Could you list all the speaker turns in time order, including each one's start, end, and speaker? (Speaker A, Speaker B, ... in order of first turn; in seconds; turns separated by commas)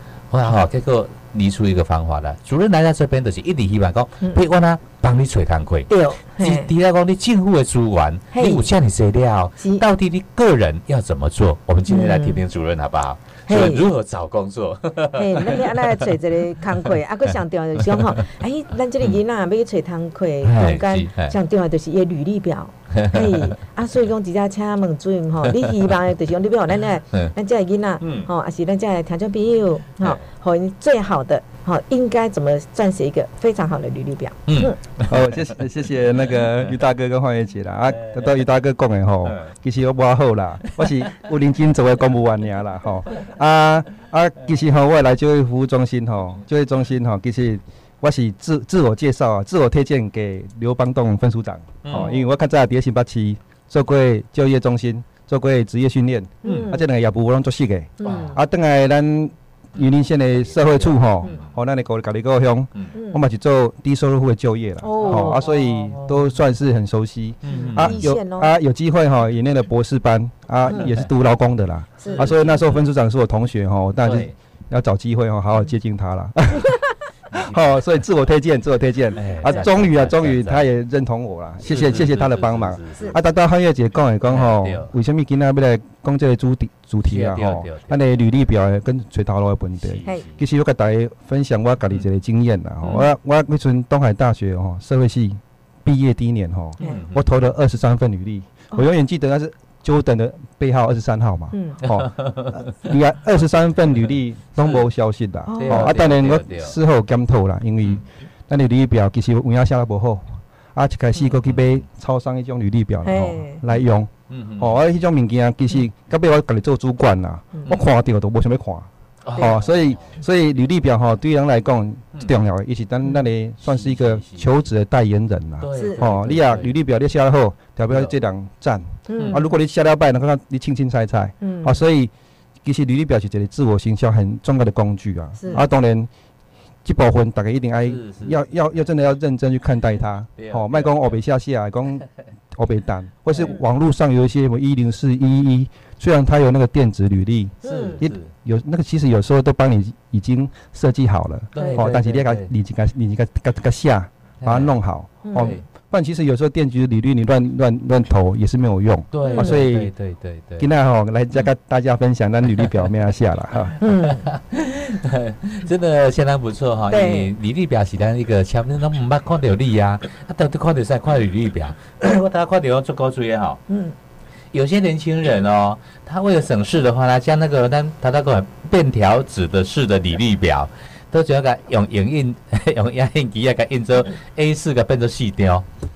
Speaker A: 0.3-15.9, Speaker B: 5.9-6.7, Speaker B: 8.3-8.6, Speaker B: 11.9-12.4, Speaker B: 13.5-13.9, Speaker B: 15.1-34.8, Speaker A: 17.8-18.2, Speaker A: 20.4-21.3, Speaker A: 22.9-23.5, Speaker A: 25.4-25.7, Speaker A: 28.0-28.3, Speaker A: 34.5-35.4, Speaker C: 35.1-76.8, Speaker A: 36.4-36.6, Speaker A: 38.0-38.3, Speaker A: 40.6-41.2, Speaker A: 51.8-52.1, Speaker B: 51.9-52.2, Speaker B: 56.4-56.9, Speaker A: 56.4-56.7, Speaker B: 58.0-58.4, Speaker A: 58.0-58.4, Speaker A: 60.4-61.5, Speaker B: 62.9-63.2, Speaker B: 64.8-65.4, Speaker A: 65.0-66.3, Speaker A: 67.4-68.0, Speaker B: 67.5-68.5, Speaker A: 70.7-71.1, Speaker B: 72.0-72.3, Speaker A: 72.0-72.8, Speaker A: 74.0-74.3, Speaker C: 77.3-132.1, Speaker A: 77.3-77.8, Speaker A: 79.1-80.7, Speaker A: 81.6-83.3, Speaker A: 84.3-84.9, Speaker A: 87.0-88.0, Speaker A: 89.8-90.4, Speaker A: 96.8-97.3, Speaker B: 101.5-101.8, Speaker A: 101.8-102.7, Speaker A: 104.6-104.9, Speaker B: 105.5-106.0, Speaker A: 105.6-106.8, Speaker A: 111.2-111.7, Speaker B: 113.0-113.6, Speaker A: 114.3-114.8, Speaker A: 119.2-120.2, Speaker A: 123.6-124.5, Speaker A: 125.6-126.7, Speaker B: 125.7-126.0, Speaker B: 129.1-129.5, Speaker B: 131.4-131.8, Speaker C: 132.6-136.1, Speaker B: 135.4-135.6, Speaker C: 136.8-159.9, Speaker A: 137.8-138.9, Speaker A: 140.4-141.2, Speaker B: 147.6-148.0, Speaker A: 147.6-148.3, Speaker A: 151.5-152.5, Speaker B: 151.6-151.8, Speaker A: 154.4-154.7, Speaker B: 155.2-155.5, Speaker A: 155.3-155.6, Speaker A: 159.1-160.7, Speaker B: 159.2-159.6, Speaker C: 160.6-163.8, Speaker A: 163.7-173.6, Speaker B: 163.8-164.2, Speaker B: 166.9-167.3, Speaker B: 173.7-173.9, Speaker A: 174.5-185.7